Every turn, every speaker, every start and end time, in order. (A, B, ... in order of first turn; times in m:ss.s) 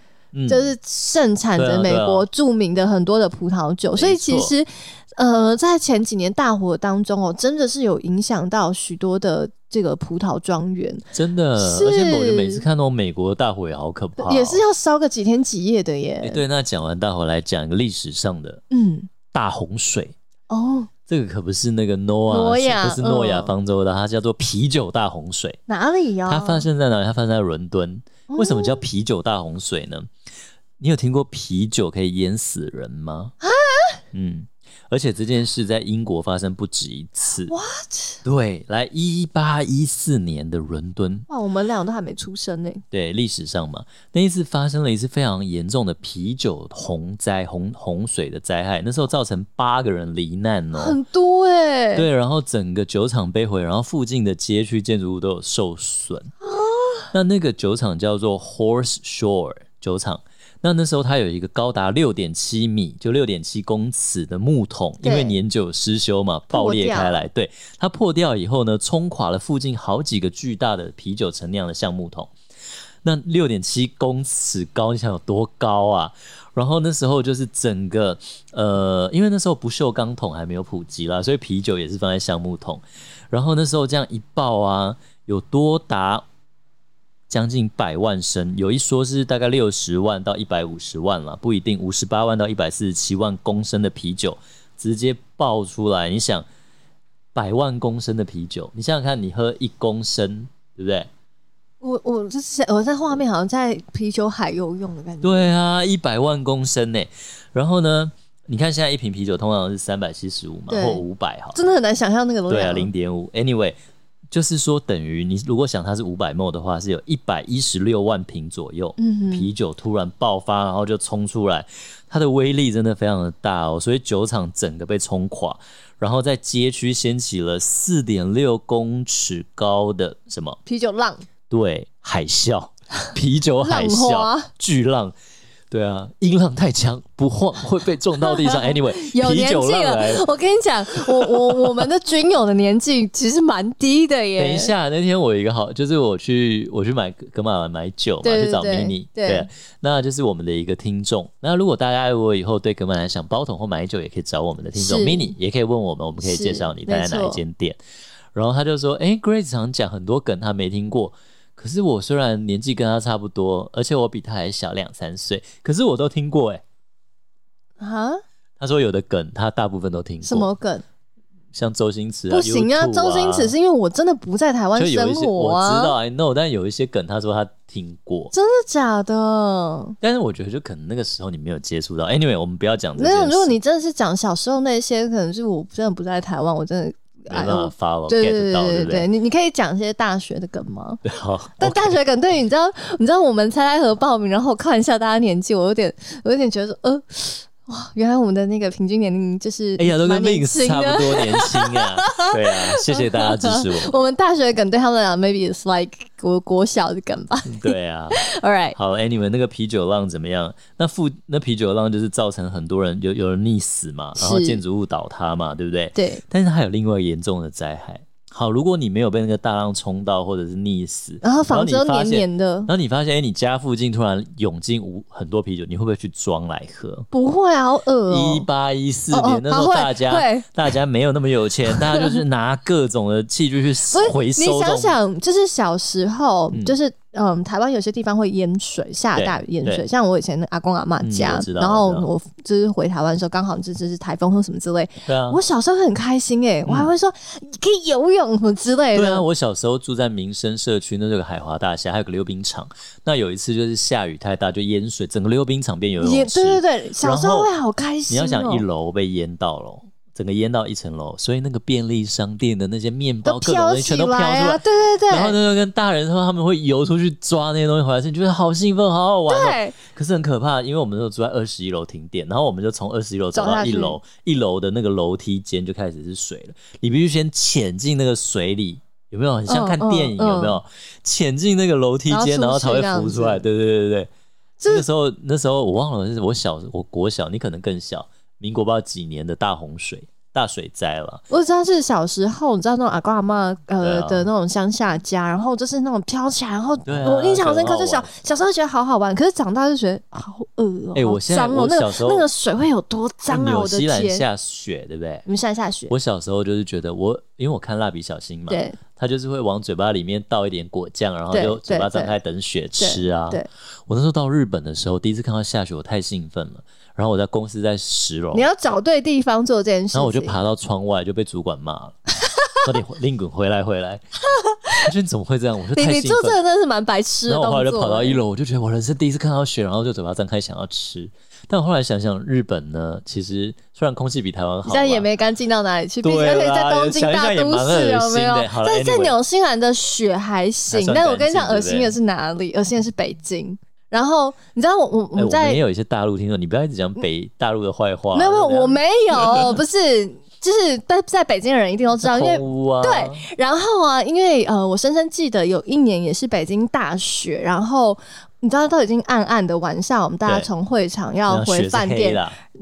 0:00.3-0:00.7 A
0:00.5-0:11.0 B
0:01.6-0:02.2 A
0:03.9-0:04.5 A
0:11.1-0:14.6 A
0:11.6-0:12.6 B
0:14.2-0:16.4 B
0:16.2-0:18.6 A
0:18.7-0:19.1 B
0:19.3-0:20.1 A
0:20.5-0:20.9 B
0:21.1-0:25.6 A
0:22.3-0:23.5 B
0:25.7-0:26.6 B
0:26.2-0:30.1 A
0:28.3-0:28.8 B
0:30.8-0:33.3 A
0:33.4-0:34.0 B
0:34.1-0:37.5 A
0:37.5-0:38.2 B
0:38.2-0:41.3 A
0:41.3-0:42.8 B
0:42.9-0:51.0 A
0:50.7-0:52.1 B
0:51.9-0:56.3 A
0:56.4-0:57.1 B
0:57.1-1:12.3 A
1:05.0-1:05.4 B
1:06.5-1:07.2 B
1:13.0-1:26.2 A
1:27.3-1:36.4 A
1:37.3-1:41.1 A
1:41.8-1:45.5 B
1:45.2-1:51.6 A
1:50.7-1:51.0 B
1:51.5-1:52.9 B
1:52.5-1:53.8 A
1:54.3-2:10.6 A
1:59.0-1:59.5 B
2:10.6-2:11.2 B
2:11.5-2:15.1 A
2:13.6-2:14.5 B
2:15.7-2:20.2 A
2:18.2-2:24.7 B
2:20.9-2:21.9 A
2:24.4-2:37.8 A
2:28.2-2:29.5 B
2:34.8-2:35.3 B
2:36.2-2:37.4 B
2:38.3-2:46.6 A
2:47.8-2:48.2 B
2:48.6-2:50.5 A
2:50.2-2:50.8 B
2:51.5-2:53.5 A
2:52.3-2:55.9 B
2:54.8-2:58.3 A
2:58.3-3:00.0 B
3:00.0-3:03.6 A
3:03.0-3:11.0 B
3:07.3-3:09.1 A
3:11.0-3:11.9 A
3:11.6-3:28.8 B
3:19.8-3:24.0 A
3:27.4-3:28.2 A
3:28.7-3:47.1 A
3:34.2-3:34.6 B
3:35.9-3:36.2 B
3:41.2-3:42.7 B
3:47.1-3:48.5 B
3:48.1-3:55.0 A
3:49.1-3:50.5 B
3:51.8-3:52.1 B
3:53.9-4:09.2 B
3:59.1-3:59.8 A
4:01.0-4:02.1 A
4:05.0-4:05.4 A
4:08.9-4:17.5 A
4:16.0-4:18.6 B
4:18.1-4:44.1 A
4:23.2-4:25.4 B
4:29.3-4:29.8 B
4:33.3-4:34.0 B
4:39.5-4:40.6 B
4:42.1-4:43.4 B
4:44.6-4:44.8 B
4:44.6-4:51.2 A
4:51.3-5:04.2 B
4:53.8-4:54.3 A
4:56.8-4:58.1 A
5:00.9-5:02.3 A
5:03.3-5:05.2 A
5:05.2-5:05.9 B
5:05.9-5:18.5 A
5:08.5-5:08.8 B
5:11.3-5:12.1 B
5:12.8-5:13.5 B
5:18.3-5:20.4 B
5:19.9-5:22.0 A
5:22.4-5:22.6 B
5:22.6-5:24.0 A
5:24.4-5:24.9 B
5:24.8-5:26.4 A
5:25.7-5:28.2 B
5:27.3-5:35.1 A
5:34.6-5:45.6 B
5:36.0-5:39.2 A
5:40.7-5:41.9 A
5:45.2-5:49.5 A
5:48.1-6:02.2 B
5:52.0-5:53.2 A
6:01.3-6:02.4 A